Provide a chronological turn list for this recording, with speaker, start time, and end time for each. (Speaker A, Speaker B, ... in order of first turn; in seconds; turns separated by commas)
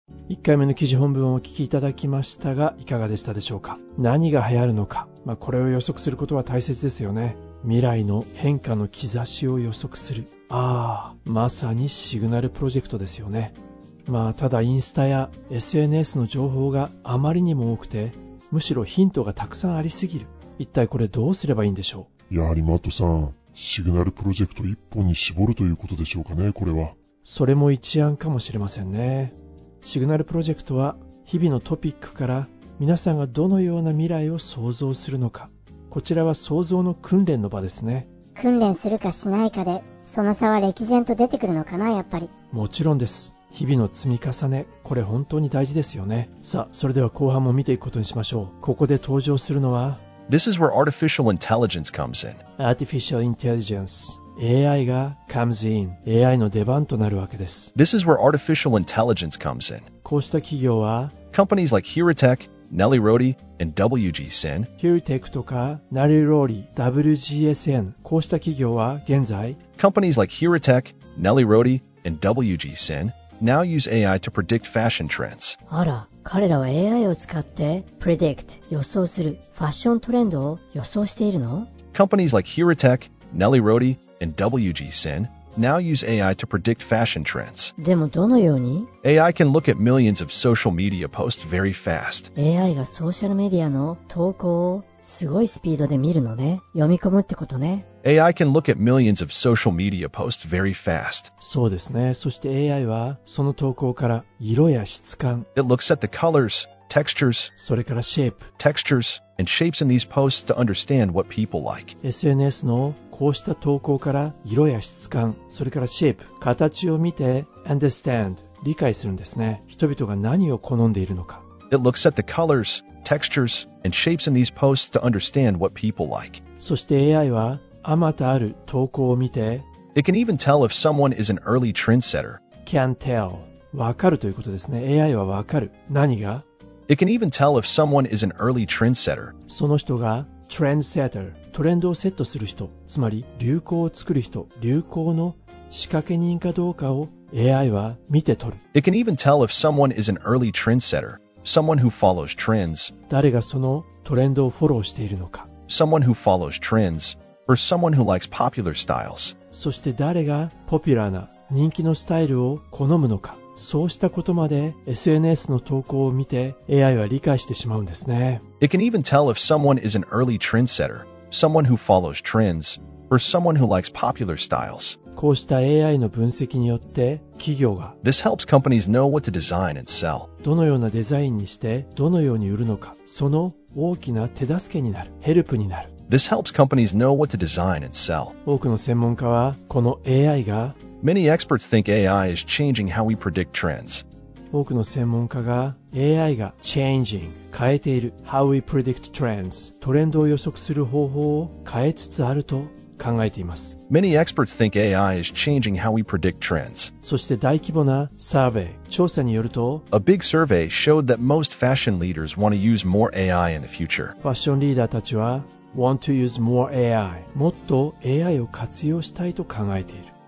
Speaker A: 0.3-22.1, Speaker B: 22.3-27.0, Speaker A: 27.2-38.1, Speaker C: 38.4-42.3, Speaker A: 42.5-50.0, Speaker D: 50.3-52.4, Speaker A: 52.6-57.7, Speaker D: 57.8-59.9, Speaker A: 60.0-61.1, Speaker D: 61.3-64.7, Speaker A: 64.8-69.6, Speaker D: 69.8-75.6, Speaker E: 75.7-81.7, Speaker D: 81.9-87.7, Speaker E: 87.8-88.9, Speaker D: 89.0-92.3, Speaker E: 92.4-97.9, Speaker D: 98.0-101.3, Speaker A: 101.4-105.5, Speaker D: 105.5-107.5, Speaker A: 107.6-108.5, Speaker D: 108.6-112.0, Speaker A: 112.0-121.5, Speaker D: 121.7-126.4, Speaker A: 126.6-129.7, Speaker D: 129.9-132.4, Speaker A: 132.7-136.5, Speaker D: 136.9-139.3, Speaker A: 139.5-148.6, Speaker D: 148.7-152.9, Speaker A: 153.1-155.5, Speaker D: 155.7-159.3, Speaker A: 159.5-168.4, Speaker D: 168.6-175.0, Speaker A: 175.1-178.0, Speaker D: 178.0-180.3, Speaker A: 180.4-185.9, Speaker D: 186.1-188.3, Speaker A: 188.4-190.8, Speaker D: 191.0-194.0, Speaker A: 194.5-203.8, Speaker D: 203.9-206.9, Speaker A: 207.0-209.9, Speaker D: 209.9-214.2, Speaker A: 214.2-220.1